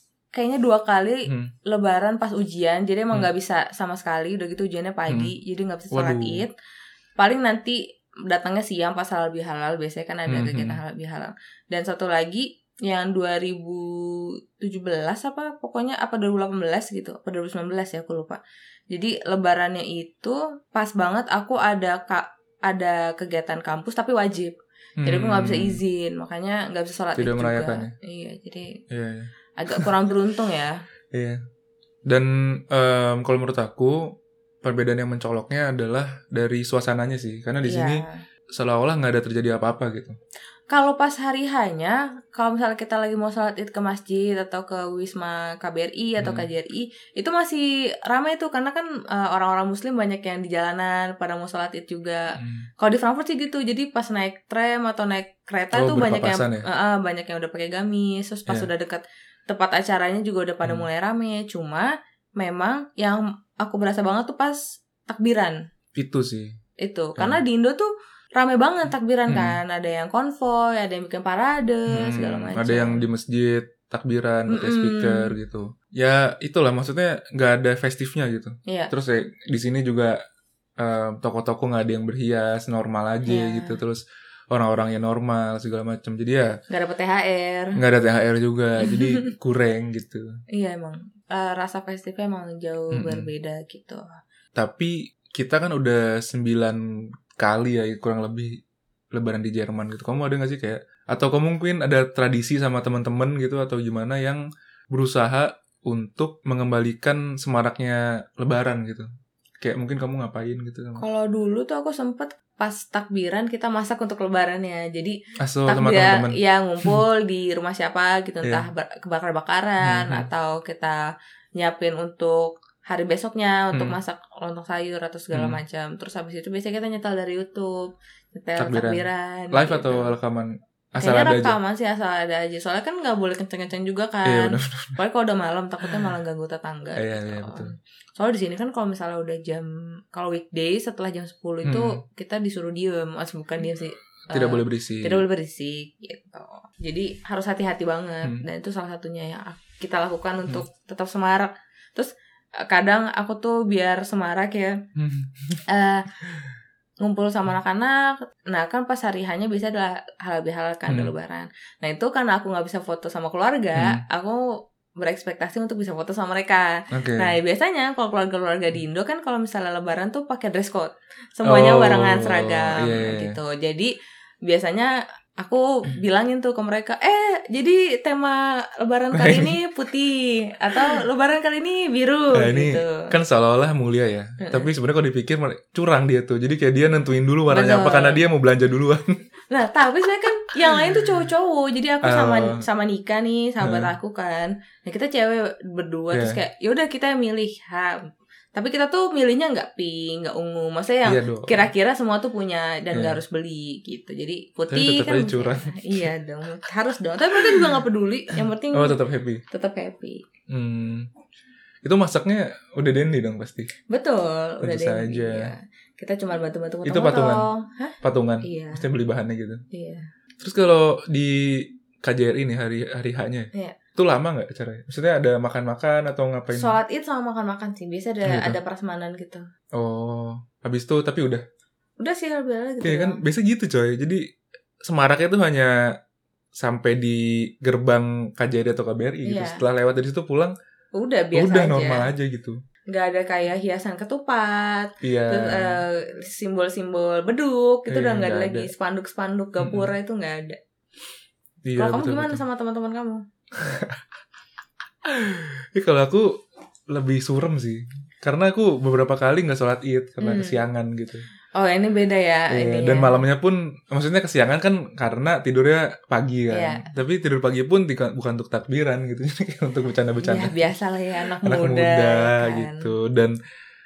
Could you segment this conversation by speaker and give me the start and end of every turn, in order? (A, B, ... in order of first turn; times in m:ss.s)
0:00.3-0:06.5 A
0:01.3-0:01.5 B
0:05.9-0:06.4 B
0:07.2-0:18.4 A
0:10.3-0:10.8 B
0:18.9-0:28.8 A
0:25.0-0:25.8 B
0:27.2-0:27.9 B
0:28.9-0:29.9 B
0:29.6-0:30.8 A
0:31.1-0:31.4 B
0:32.1-0:38.0 B
0:37.7-0:38.2 A
0:38.6-0:40.2 B
0:40.7-1:05.6 A
0:46.2-0:46.5 B
0:52.4-0:52.7 B
0:55.7-0:56.6 B
1:06.0-1:06.6 B
1:06.8-1:13.0 A
1:09.3-1:09.6 B
1:11.9-1:20.2 B
1:14.5-1:15.3 A
1:18.7-1:18.9 A
1:20.8-1:26.6 B
1:23.3-1:23.8 A
1:26.7-1:27.8 A
1:27.8-1:30.3 B
1:28.8-1:29.3 A
1:30.5-1:34.2 A
1:32.9-1:33.3 B
1:34.6-1:38.6 B
1:39.1-1:49.1 B
1:49.6-1:51.0 B
1:51.0-2:01.0 A
1:55.4-1:57.0 B
1:59.8-2:00.3 B
2:01.6-2:10.1 A
2:05.3-2:05.6 B
2:08.6-2:11.6 B
2:11.0-2:32.1 A
2:14.2-2:15.0 B
2:15.8-2:16.1 B
2:17.0-2:17.7 B
2:21.6-2:22.0 B
2:24.3-2:25.2 B
2:32.6-2:34.8 A
2:35.0-2:35.6 B
2:35.7-2:36.1 A
2:37.0-2:53.9 A
2:40.9-2:41.1 B
2:43.8-2:44.0 B
2:46.9-2:47.4 B
2:51.4-2:53.4 B
2:54.4-3:03.1 A
2:59.1-2:59.6 B
3:02.3-3:09.2 B
3:04.4-3:04.7 A
3:07.5-3:08.2 A
3:09.5-3:18.0 A
3:10.6-3:11.1 B
3:12.0-3:12.6 B
3:13.6-3:13.9 B
3:16.1-3:16.4 B
3:18.6-3:29.0 A
3:21.0-3:21.7 B
3:22.9-3:23.2 B
3:24.7-3:26.1 B
3:27.3-3:27.8 B
3:28.4-3:29.4 B
3:29.5-3:30.2 A
3:30.5-3:31.1 B
3:31.8-3:33.7 B
3:33.9-3:38.8 A
3:34.6-3:35.5 B
3:36.8-3:37.5 B
3:38.0-3:39.6 B
3:39.7-3:40.1 A
3:40.4-3:46.8 B
3:46.5-3:49.5 A
3:48.2-3:48.6 B
3:49.7-3:51.4 B
3:52.0-3:53.2 A
3:52.8-3:54.2 B
3:54.8-3:55.8 B
3:56.6-4:00.6 B
3:59.2-3:59.6 A
4:01.0-4:02.1 A
4:01.3-4:02.6 B
4:02.9-4:10.6 A
4:05.0-4:05.8 B
4:07.9-4:08.7 B
4:09.6-4:09.9 B
4:11.6-4:12.4 B
4:11.8-4:13.2 A
4:13.6-4:14.0 B
4:15.0-4:16.4 B
4:16.9-4:21.3 B
4:20.2-4:20.6 A
4:21.6-4:23.2 A
4:22.5-4:30.6 B
4:26.5-4:26.8 A
4:30.2-4:32.9 A
4:31.4-4:33.4 B